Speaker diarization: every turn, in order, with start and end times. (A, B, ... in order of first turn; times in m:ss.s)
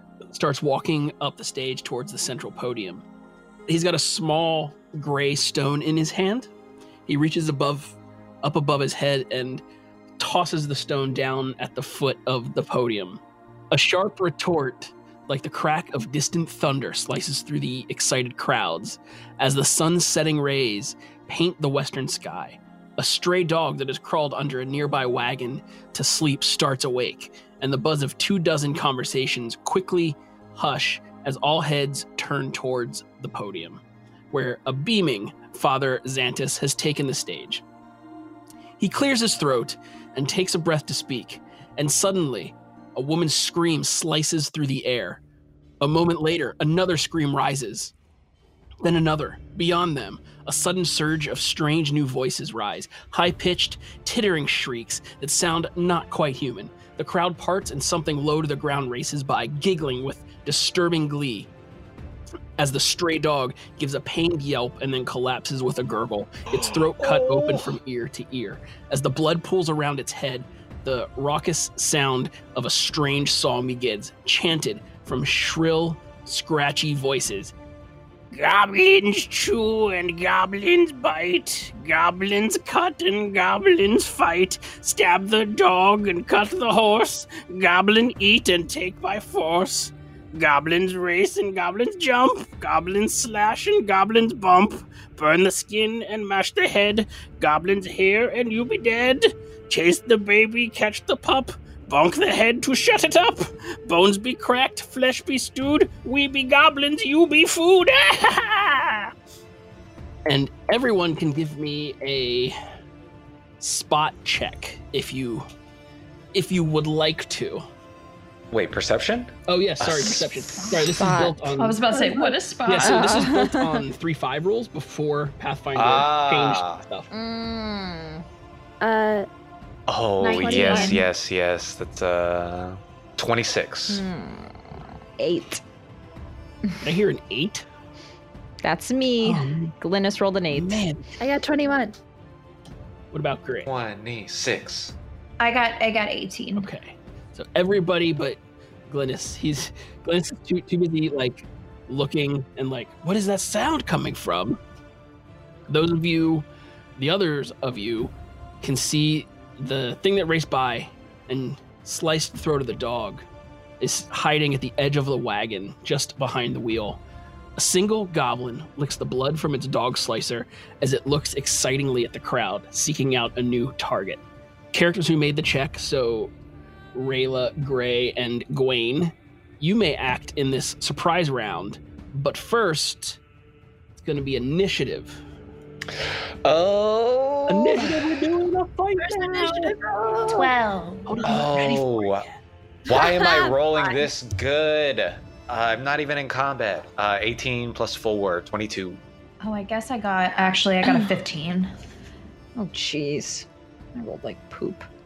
0:00.3-0:03.0 A
0:03.7-0:06.5 A
0:07.1-0:09.6 A
0:10.2-0:13.2 A
0:13.7-0:37.6 A
0:38.8-0:45.2 A
0:45.8-0:47.9 A
0:48.8-1:01.5 A
1:02.6-1:17.5 A
1:06.5-1:07.7 B
1:18.3-1:49.1 A
1:50.3-1:52.6 A
1:53.6-1:55.5 A
1:56.3-1:57.6 A
1:58.5-2:00.3 B
1:59.5-2:01.8 A
2:00.8-2:01.4 C
2:01.6-2:03.3 D
2:02.7-2:07.1 A
2:02.8-2:03.8 C
2:05.8-2:06.8 B
2:07.1-2:08.2 C
2:08.8-2:09.3 E
2:09.9-2:14.0 B
2:10.2-2:11.0 E
2:10.2-2:11.0 D
2:13.9-2:14.6 C
2:15.2-2:15.6 C
2:16.8-2:17.7 A
2:18.6-2:20.8 C
2:19.2-2:19.8 A
2:20.5-2:21.1 A
2:21.2-2:22.0 E
2:23.1-2:23.7 A
2:23.7-2:25.0 B
2:25.4-2:26.7 D
2:26.6-2:34.6 A
2:35.7-2:36.5 A
2:37.0-2:43.2 A
2:43.8-2:47.0 A
2:47.6-2:54.2 A
2:54.7-2:56.3 A
2:56.9-3:03.2 A
3:04.0-3:05.2 A
3:06.0-3:08.1 B
3:07.5-3:09.8 A
3:09.0-3:10.5 E
3:10.3-3:11.1 D
3:11.1-3:12.3 A
3:11.2-3:12.2 B
3:12.9-3:19.0 B
3:19.4-3:21.7 D
3:22.6-3:24.9 C